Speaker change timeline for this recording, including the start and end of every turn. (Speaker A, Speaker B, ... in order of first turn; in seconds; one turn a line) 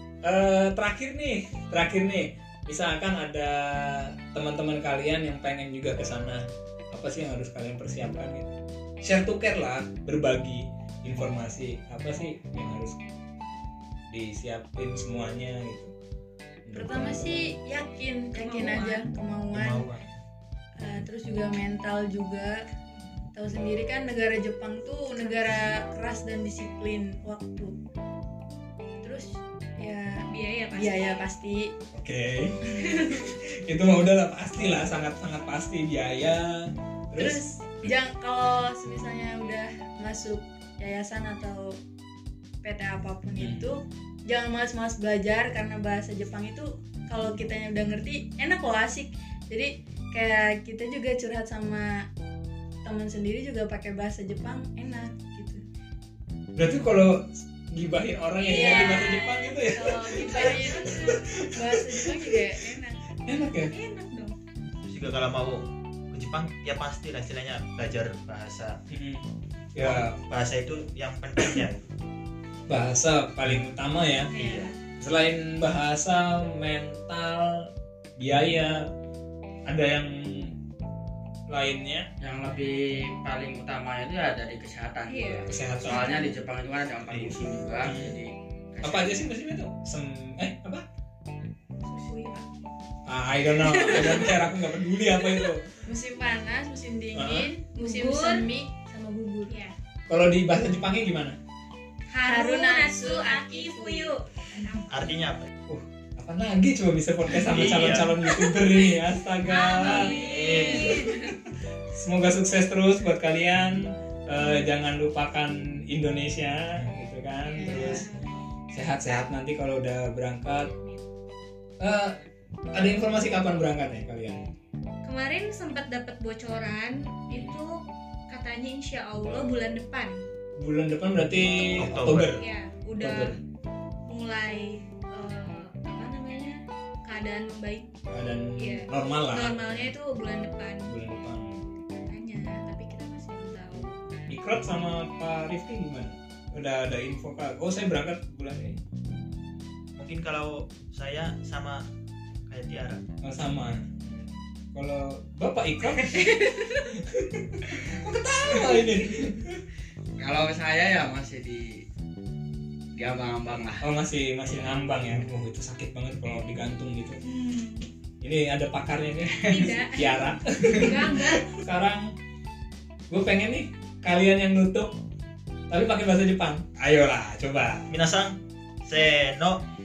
Speaker A: 0.2-8.5
Speaker A: 9.0-13.0
Speaker A: 14.1-15.9
Speaker A: 16.6-17.6
Speaker B: 16.7-19.9
Speaker C: 18.3-19.1
Speaker D: 19.5-20.1
Speaker B: 20.8-22.6
Speaker B: 23.3-27.8
Speaker B: 29.0-31.7
Speaker C: 30.3-31.3
Speaker A: 31.9-37.9
Speaker C: 32.7-33.2
Speaker B: 37.2-41.8
Speaker B: 42.6-52.1
Speaker A: 43.4-43.8
Speaker B: 52.9-55.6
Speaker A: 56.6-62.6
Speaker C: 58.4-61.2
Speaker B: 58.5-63.0
Speaker A: 63.3-63.8
Speaker C: 63.7-64.3
Speaker D: 64.8-68.8
Speaker A: 68.9-70.2
Speaker D: 69.8-71.9
Speaker A: 72.7-74.3
Speaker C: 74.3-74.8
Speaker D: 74.3-74.7
Speaker A: 75.0-78.9
Speaker A: 79.7-80.6
Speaker A: 81.5-82.1
Speaker E: 82.2-89.2
Speaker C: 85.1-86.4
Speaker A: 85.5-86.1
Speaker D: 87.1-87.6
Speaker A: 87.8-88.2
Speaker A: 88.8-90.8
Speaker C: 91.9-92.4
Speaker A: 93.1-95.7
Speaker C: 93.6-94.4
Speaker C: 95.2-95.5
Speaker B: 95.8-99.6
Speaker A: 97.2-97.5
Speaker C: 97.8-98.5
Speaker C: 99.5-99.8
Speaker A: 100.1-101.4
Speaker C: 102.1-104.9
Speaker B: 102.2-104.2
Speaker D: 104.9-105.5
Speaker A: 105.7-111.0
Speaker D: 107.4-108.2
Speaker C: 109.5-111.3
Speaker D: 110.2-111.0
Speaker B: 110.3-111.3
Speaker A: 111.9-118.1
Speaker B: 117.6-118.1
Speaker C: 117.7-118.2
Speaker A: 118.7-120.7
Speaker C: 120.7-121.0
Speaker A: 121.8-122.2
Speaker A: 122.7-124.4
Speaker C: 125.0-127.8
Speaker A: 127.3-127.6
Speaker C: 128.3-130.2
Speaker A: 130.6-132.4
Speaker D: 131.7-132.4
Speaker C: 132.4-133.4
Speaker A: 133.0-133.4
Speaker C: 134.1-137.9
Speaker A: 138.1-139.9
Speaker C: 138.6-140.9
Speaker A: 140.9-141.6
Speaker C: 142.1-144.0
Speaker A: 143.8-148.8
Speaker D: 150.0-151.9
Speaker D: 152.5-153.1
Speaker A: 153.2-156.4
Speaker C: 156.0-156.9
Speaker A: 156.9-159.6
Speaker E: 160.2-161.8
Speaker E: 162.9-163.9
Speaker A: 163.8-167.2
Speaker E: 164.5-164.8
Speaker C: 167.2-167.9
Speaker A: 168.2-172.1
Speaker E: 169.4-169.7
Speaker C: 169.4-171.6
Speaker A: 173.1-175.0
Speaker A: 175.7-177.9
Speaker D: 177.9-179.6